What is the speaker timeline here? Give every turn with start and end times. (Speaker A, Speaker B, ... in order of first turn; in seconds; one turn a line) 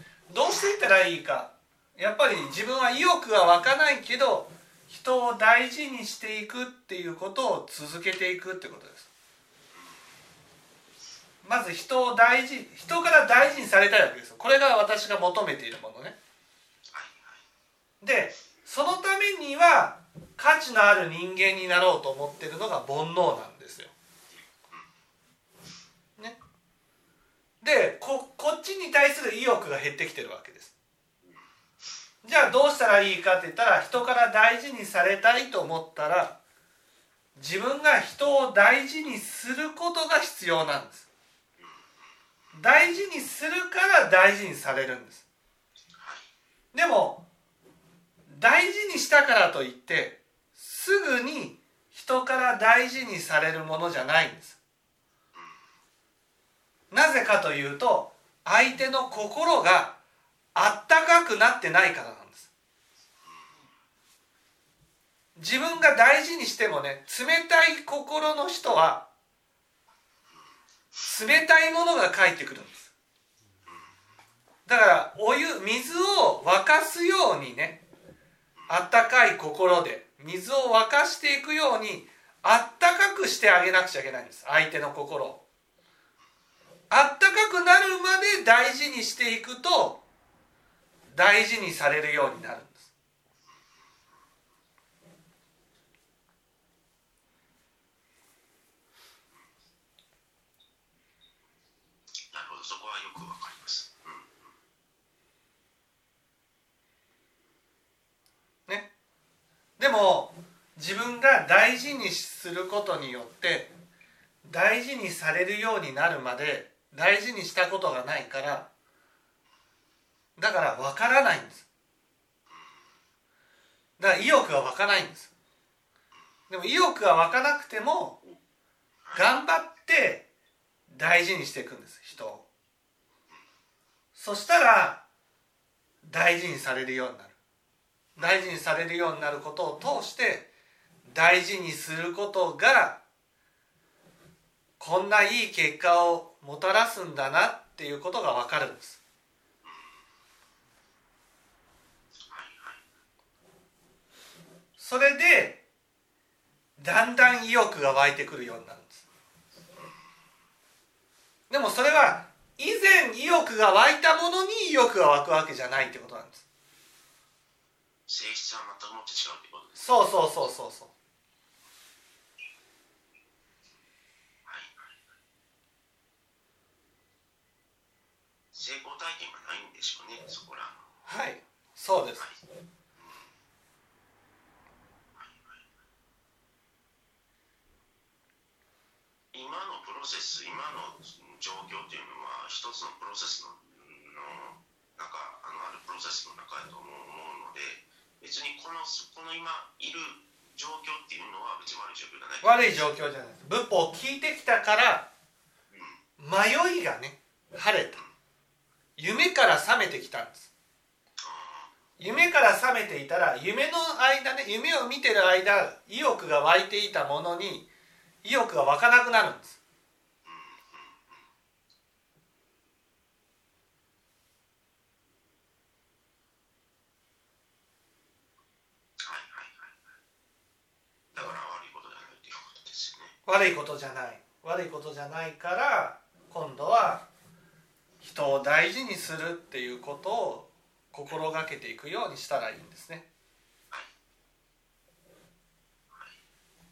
Speaker A: 0.3-9.1
Speaker A: 11.4-16.2
Speaker B: 16.9-17.4
Speaker A: 18.0-23.9
Speaker B: 24.3-24.8
Speaker A: 27.6-30.7
Speaker A: 32.2-36.4
Speaker A: 37.4-41.1
Speaker A: 42.5-45.2
Speaker B: 46.0-46.3
Speaker A: 46.7-47.2
Speaker A: 48.3-54.6
Speaker B: 55.3-55.6
Speaker A: 56.9-60.0
Speaker A: 60.5-62.5
Speaker B: 63.2-63.6
Speaker A: 65.3-69.0
Speaker A: 71.0-72.9
Speaker A: 74.7-77.8
Speaker B: 78.6-78.9
Speaker A: 78.7-85.4
Speaker A: 86.9-90.0
Speaker A: 91.1-92.9
Speaker B: 102.3-104.4
Speaker A: 109.8-113.7
Speaker A: 114.4-118.7
Speaker A: 120.4-121.7
Speaker B: 122.5-122.8
Speaker A: 124.0-125.3
Speaker A: 126.5-128.2
Speaker A: 129.1-130.3
Speaker A: 130.9-132.5
Speaker A: 134.2-135.0
Speaker A: 136.0-137.3
Speaker A: 138.2-140.5
Speaker B: 138.2-138.5
Speaker A: 141.1-143.0
Speaker A: 144.8-149.0
Speaker B: 149.6-149.9
Speaker B: 152.3-152.8
Speaker A: 154.8-155.6
Speaker A: 156.8-159.0
Speaker A: 161.5-166.4
Speaker B: 168.1-169.8
Speaker A: 169.8-170.9
Speaker B: 174.4-174.9
Speaker B: 178.5-180.8
Speaker A: 181.1-182.2
Speaker B: 183.0-183.3
Speaker B: 185.2-185.6
Speaker B: 189.3-202.9
Speaker A: 202.4-205.1
Speaker B: 205.7-206.0
Speaker A: 206.2-208.0
Speaker A: 209.0-210.5
Speaker B: 211.2-211.7
Speaker A: 212.0-217.7
Speaker A: 218.2-219.6
Speaker B: 220.2-221.2
Speaker B: 229.0-229.7
Speaker B: 231.1-233.1
Speaker A: 233.2-237.0
Speaker A: 238.0-243.1
Speaker B: 245.9-246.2